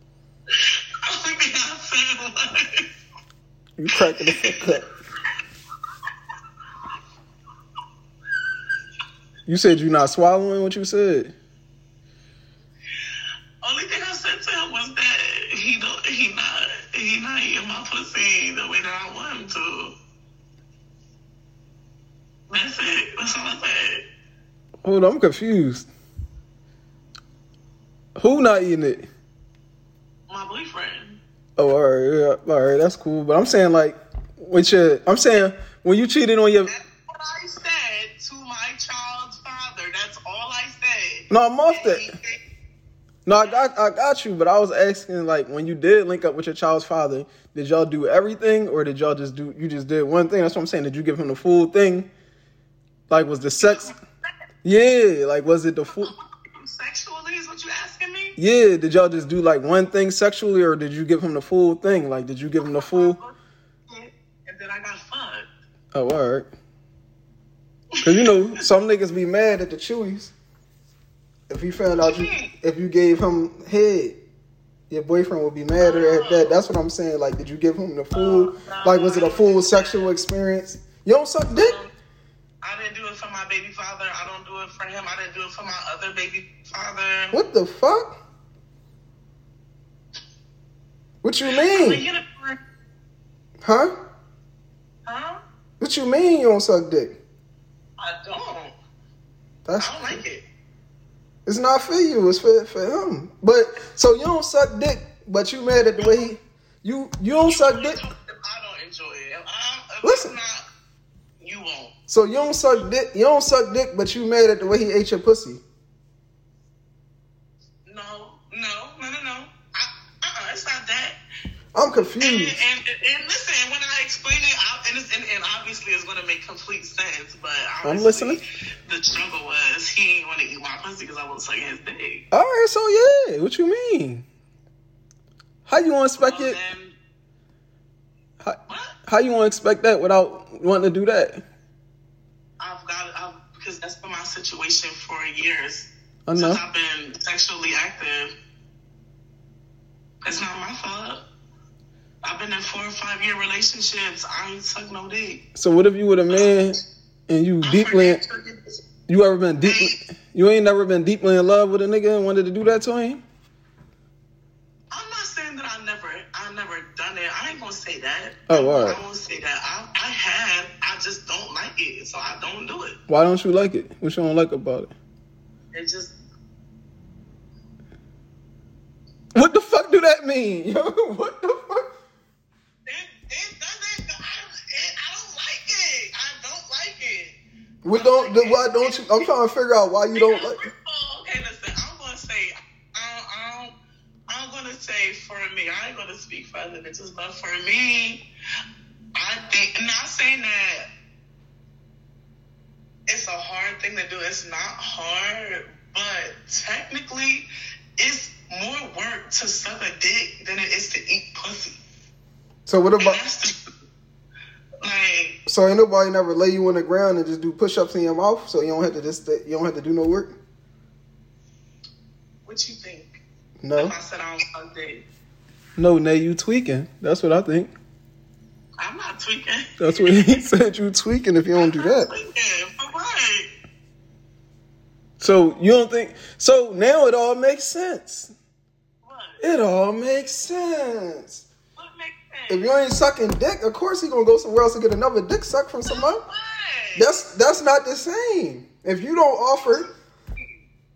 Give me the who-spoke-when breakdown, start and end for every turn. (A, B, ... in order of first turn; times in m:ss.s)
0:00.5-0:02.8 A
0:03.8-0:04.9 B
0:04.2-0:04.7 A
0:09.5-0:11.3 B
0:13.6-0:19.9 A
0:22.5-0:24.0 A
0:24.8-0:25.9 B
0:28.2-0:29.1 B
0:30.3-0:31.2 A
0:31.6-0:36.7 B
0:36.6-0:42.4 A
0:41.3-0:42.1 B
0:43.2-0:52.1 B
0:43.3-0:43.7 A
0:53.1-0:53.9 B
0:53.6-0:54.3 A
0:54.6-0:56.1 B
0:55.9-0:58.4 A
0:58.4-1:03.2 B
1:02.6-1:03.4 A
1:03.9-1:05.5 A
1:05.9-1:06.5 B
1:08.0-1:08.3 A
1:08.0-1:10.3 B
1:11.5-1:14.2 B
1:12.0-1:12.5 A
1:14.9-1:21.8 B
1:15.8-1:16.6 A
1:18.1-1:20.0 A
1:21.5-1:21.9 A
1:22.6-1:27.4 A
1:27.3-1:28.2 B
1:31.2-1:32.0 B
1:31.6-1:32.6 A
1:33.6-1:33.9 B
1:35.0-1:35.4 A
1:35.8-1:37.2 B
1:38.0-1:38.8 A
1:39.6-1:40.2 B
1:39.8-1:40.4 A
1:41.4-1:48.0 B
1:47.4-1:50.6 A
1:50.0-1:50.3 B
1:51.4-1:51.9 A
1:52.1-1:55.6 B
1:57.8-2:01.2 A
2:01.7-2:02.6 B
2:02.2-2:12.2 A
2:07.8-2:08.4 B
2:12.3-2:14.2 B
2:15.6-2:16.6 B
2:16.2-2:17.0 A
2:18.4-2:21.4 B
2:18.7-2:18.9 A
2:22.6-2:28.3 A
2:26.2-2:26.6 B
2:30.2-2:31.2 A
2:32.2-2:35.4 A
2:35.5-2:36.8 B
2:36.3-2:36.6 A
2:37.3-2:38.2 B
2:37.6-2:38.8 A
2:39.1-2:43.2 B
2:39.6-2:40.0 A
2:44.9-2:53.0 A
2:48.5-2:49.0 B
2:53.1-2:54.9 B
2:55.7-2:56.1 A
2:59.3-3:01.8 B
3:02.8-3:07.4 A
3:07.8-3:10.6 B
3:07.9-3:09.2 A
3:10.1-3:13.8 A
3:14.3-3:18.2 A
3:19.1-3:20.9 A
3:23.1-3:27.5 A
3:28.0-3:31.8 A
3:32.6-3:33.2 B
3:33.0-3:33.5 A
3:34.8-3:35.4 A
3:35.4-3:40.3 B
3:42.4-3:43.2 A
3:43.6-3:44.0 B
3:43.7-3:45.0 A
3:45.8-3:47.7 B
3:48.8-3:50.4 A
3:49.8-3:52.1 B
3:51.6-3:53.5 A
3:55.2-3:58.3 B
3:59.0-3:59.4 A
3:59.4-4:01.4 B
4:01.8-4:02.7 A
4:02.5-4:06.2 B
4:05.8-4:07.2 A
4:07.0-4:09.8 B
4:09.7-4:10.6 A